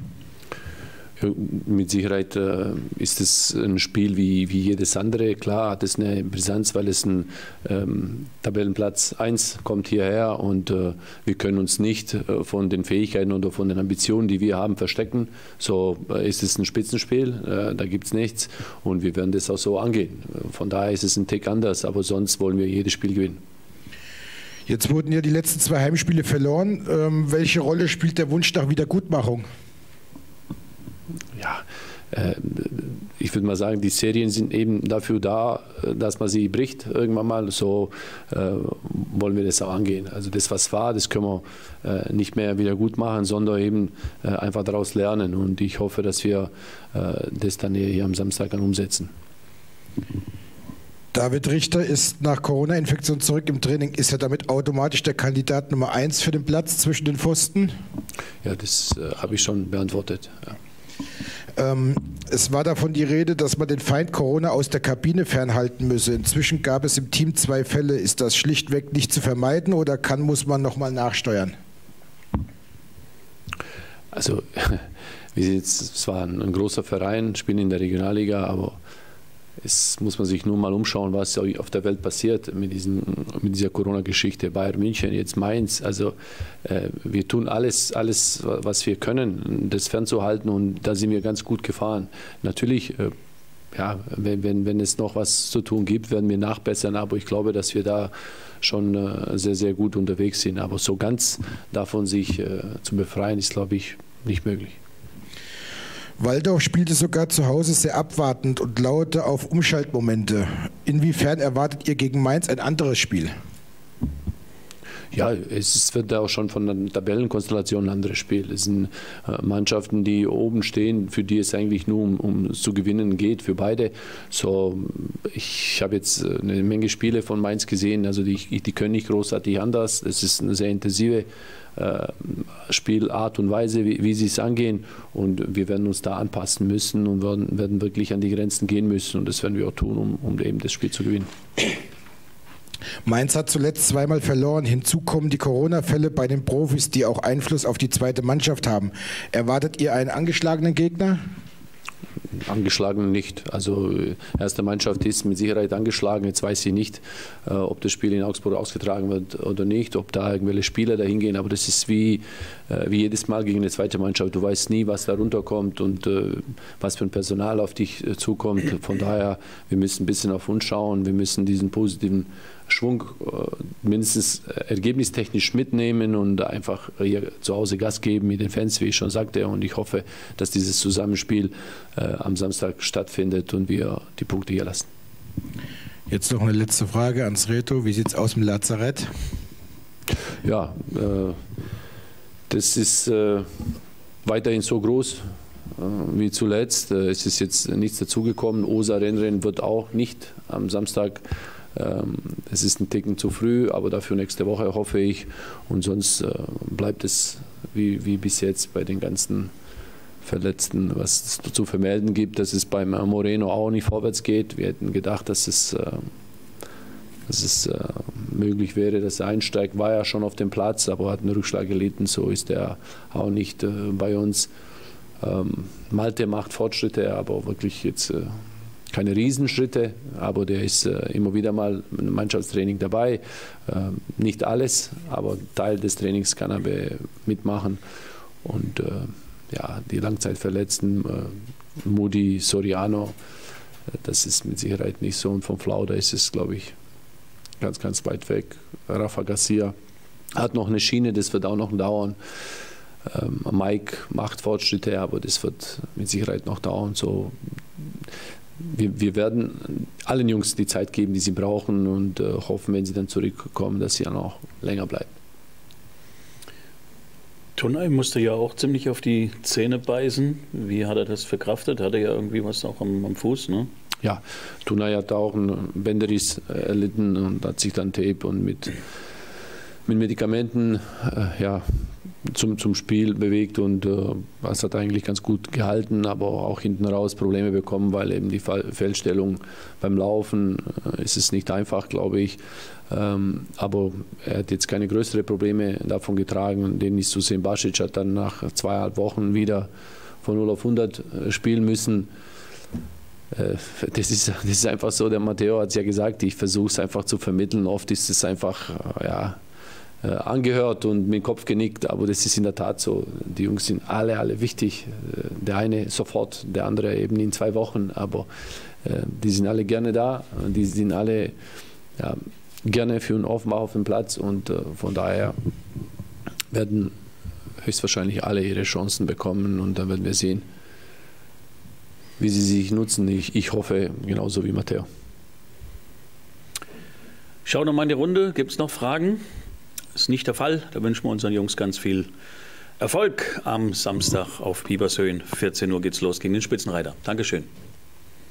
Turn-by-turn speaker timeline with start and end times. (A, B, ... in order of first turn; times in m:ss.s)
0:01.2-0:23.4 A
0:24.7-0:29.5 B
0:31.4-0:49.1 A
0:51.1-0:57.7 B
0:58.4-1:00.6 A
1:01.6-1:11.6 B
1:14.1-1:18.8 A
1:19.6-1:33.1 A
1:33.7-1:44.8 A
1:46.2-1:53.3 B
1:55.1-2:21.3 A
2:23.0-2:31.2 B
2:32.4-3:04.9 A
3:06.1-3:09.1 B
3:10.4-3:11.4 A
3:12.5-3:13.7 A
3:14.2-3:15.2 A
3:15.8-3:29.5 A
3:30.2-3:36.1 A
3:37.3-3:44.5 A
3:45.2-3:57.8 A
3:58.4-4:03.2 A
4:04.0-4:06.7 A
4:07.6-4:09.7 A
4:10.4-4:12.2 A
4:13.0-4:17.9 A
4:18.6-4:25.1 A
4:27.6-4:33.7 C
4:34.0-4:38.8 A
4:39.8-4:59.7 A
5:00.2-5:02.1 A
5:03.3-5:09.4 A
5:10.0-5:18.3 A
5:18.8-5:21.3 A
5:22.0-5:25.4 A
5:26.5-5:26.9 A
5:27.6-5:30.4 A
5:32.2-5:34.9 A
5:37.4-5:39.2 C
5:39.9-5:42.1 C
5:42.8-5:47.5 C